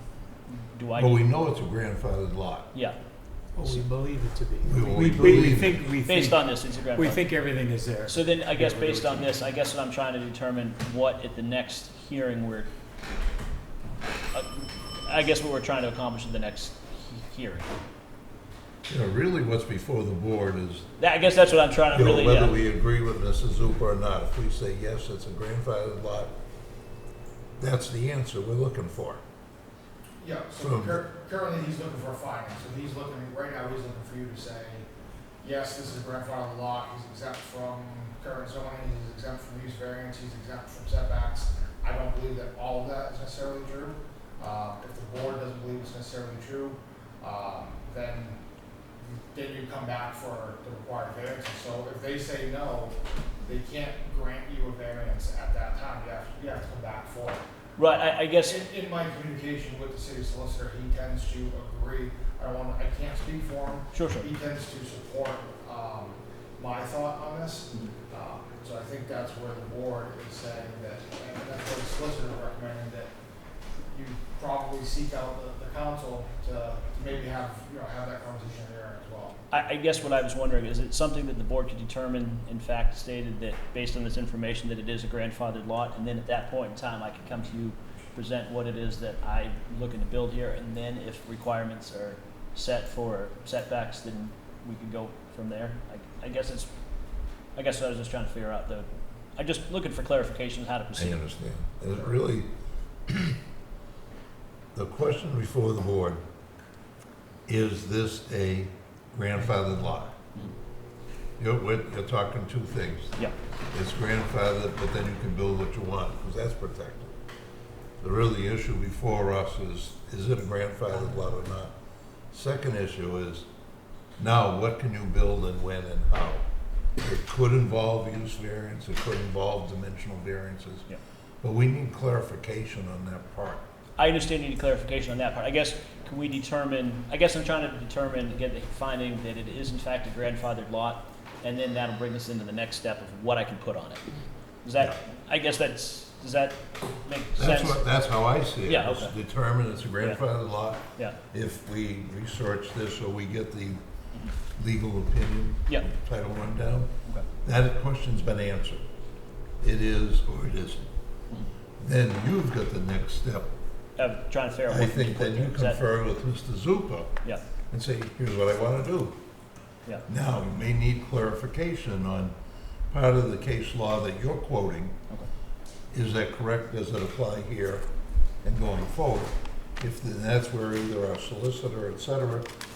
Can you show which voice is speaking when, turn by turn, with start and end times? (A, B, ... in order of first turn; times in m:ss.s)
0:00.5-0:01.2 A
0:00.9-0:02.7 B
0:03.5-0:09.3 C
0:04.6-0:05.8 B
0:06.0-0:07.3 A
0:08.0-0:12.7 A
0:14.3-0:17.7 A
0:18.9-0:20.8 B
0:21.0-0:22.6 A
0:21.9-0:26.3 B
0:27.6-0:29.2 B
0:30.2-0:34.8 D
0:30.6-0:31.0 B
0:35.4-0:48.4 D
0:49.0-0:57.4 D
0:57.8-0:58.6 A
0:58.4-1:13.1 D
1:03.9-1:04.3 A
1:13.9-1:19.4 D
1:19.5-1:36.7 A
1:37.6-1:41.2 A
1:41.0-1:42.5 B
1:43.1-1:43.4 B
1:44.7-1:46.2 B
1:47.5-1:50.1 B
1:51.4-1:53.2 B
1:53.7-1:57.2 B
1:58.0-2:01.7 B
2:02.3-2:03.4 B
2:04.2-2:06.4 B
2:07.0-2:10.8 B
2:11.4-2:13.6 B
2:14.0-2:24.0 A
2:24.6-2:27.9 A
2:27.4-2:33.8 B
2:28.6-2:29.1 A
2:34.6-2:36.9 B
2:37.4-2:38.8 B
2:39.6-2:40.8 B
2:41.8-2:43.5 B
2:44.0-2:45.8 A
2:44.7-2:47.1 B
2:47.7-2:49.2 B
2:50.1-2:52.3 B
2:52.9-2:54.9 B
2:55.9-2:57.8 B
2:58.4-3:02.5 B